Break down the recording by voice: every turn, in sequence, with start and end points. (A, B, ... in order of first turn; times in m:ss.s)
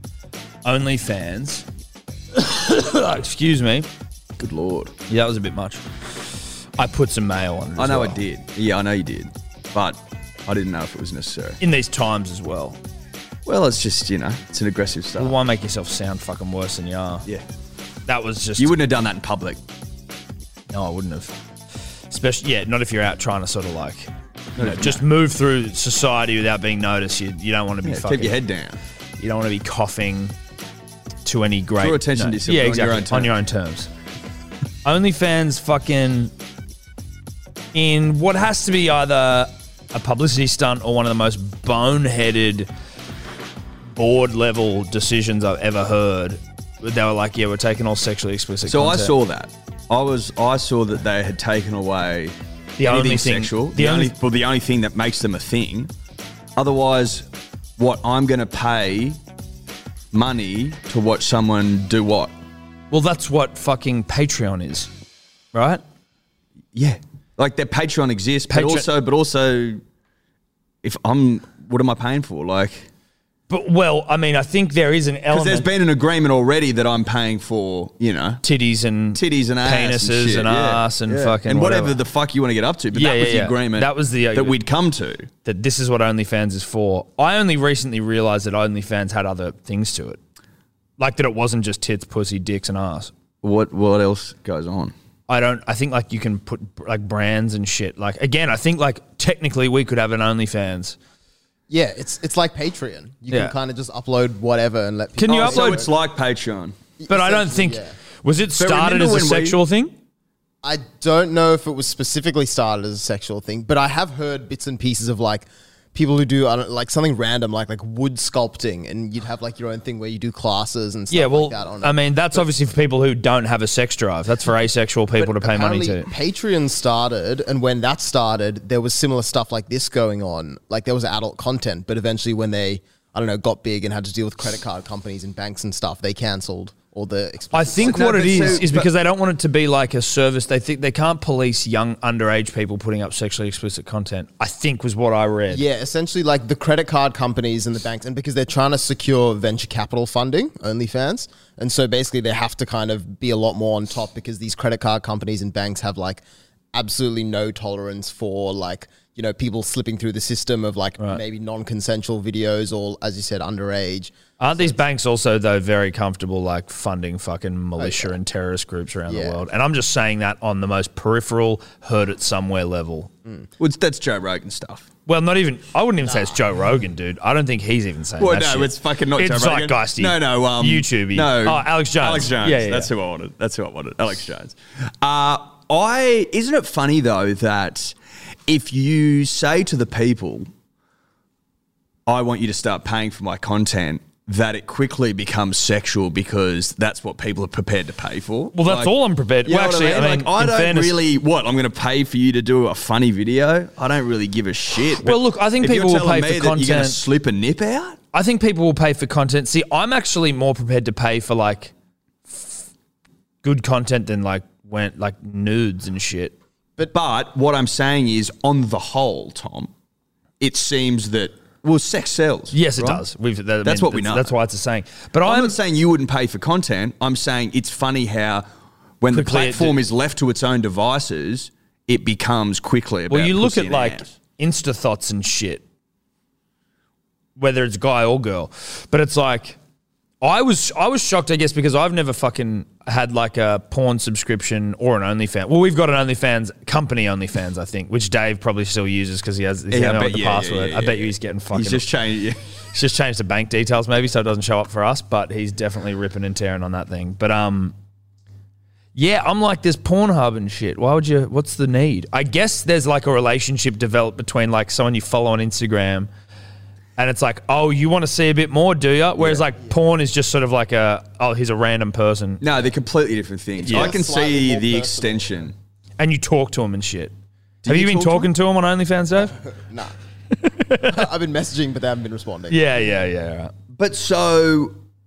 0:00.6-0:01.7 A
0:02.4-0:03.9 A
0:04.4-0:04.9 B
0:05.1-0:05.8 A
0:06.8-0:08.2 A
0:07.8-0:11.6 B
0:11.6-0:12.8 A
0:13.4-0:15.4 B
0:15.2-0:17.3 A
0:18.1-0:18.7 A
0:18.6-0:19.6 B
0:20.7-0:21.4 A
0:22.1-0:28.4 A
0:24.6-0:25.0 B
0:27.8-0:28.8 B
0:29.2-0:30.3 A
0:31.2-0:33.9 A
0:31.8-0:33.3 B
0:34.8-0:36.3 A
0:37.7-0:42.7 A
0:43.9-0:49.1 A
0:48.7-0:55.9 B
0:52.8-0:54.1 A
0:56.6-0:57.2 B
0:57.8-0:59.2 B
1:00.1-1:02.3 B
1:02.9-1:04.9 A
1:05.5-1:05.8 A
1:06.7-1:09.8 B
1:08.5-1:08.9 A
1:10.8-1:12.9 B
1:13.5-1:15.7 A
1:15.3-1:18.4 B
1:18.4-1:22.0 A
1:19.2-1:25.3 B
1:22.9-1:24.6 A
1:25.4-1:30.2 A
1:31.0-1:33.1 A
1:33.4-1:34.9 B
1:35.3-1:41.0 A
1:41.7-1:45.9 C
1:45.2-1:45.9 A
1:45.3-1:46.8 B
1:47.0-1:48.0 C
1:47.1-1:50.0 A
1:48.6-1:49.6 B
1:50.6-2:02.4 C
2:01.1-2:06.1 A
2:05.2-2:18.6 C
2:17.5-2:25.6 A
2:17.8-2:18.9 B
2:25.5-2:44.8 C
2:44.4-2:53.1 A
2:47.8-2:48.1 C
2:49.1-2:49.4 C
2:53.6-2:54.9 B
2:55.1-3:02.9 A
2:56.0-2:56.4 C
2:58.2-3:08.0 B
3:08.5-3:10.5 B
3:12.1-3:18.9 B
3:18.5-3:21.0 A
3:19.4-3:28.0 B
3:24.9-3:27.0 A
3:28.1-3:31.7 A
3:32.3-3:32.6 A
3:33.4-3:36.4 A
3:36.9-3:39.7 B
3:40.4-3:43.0 B
3:42.5-3:45.6 A
3:43.6-3:44.3 B
3:45.2-3:48.4 B
3:49.0-3:54.1 B
3:49.1-3:49.8 A
3:53.1-3:55.6 A
3:57.4-3:59.6 A
4:00.2-4:11.8 A
4:09.7-4:12.4 B
4:12.7-4:17.8 A
4:19.0-4:26.1 A
4:27.0-4:32.4 A
4:29.2-4:29.4 B
4:32.4-4:35.5 B
4:33.6-4:35.5 C
4:33.7-4:33.9 A
4:36.0-4:37.1 A
4:37.6-4:38.3 B
4:37.7-4:39.4 A
4:39.2-4:40.0 C
4:40.4-4:41.0 A
4:40.9-4:42.6 C
4:42.5-4:43.5 A
4:43.8-4:44.8 B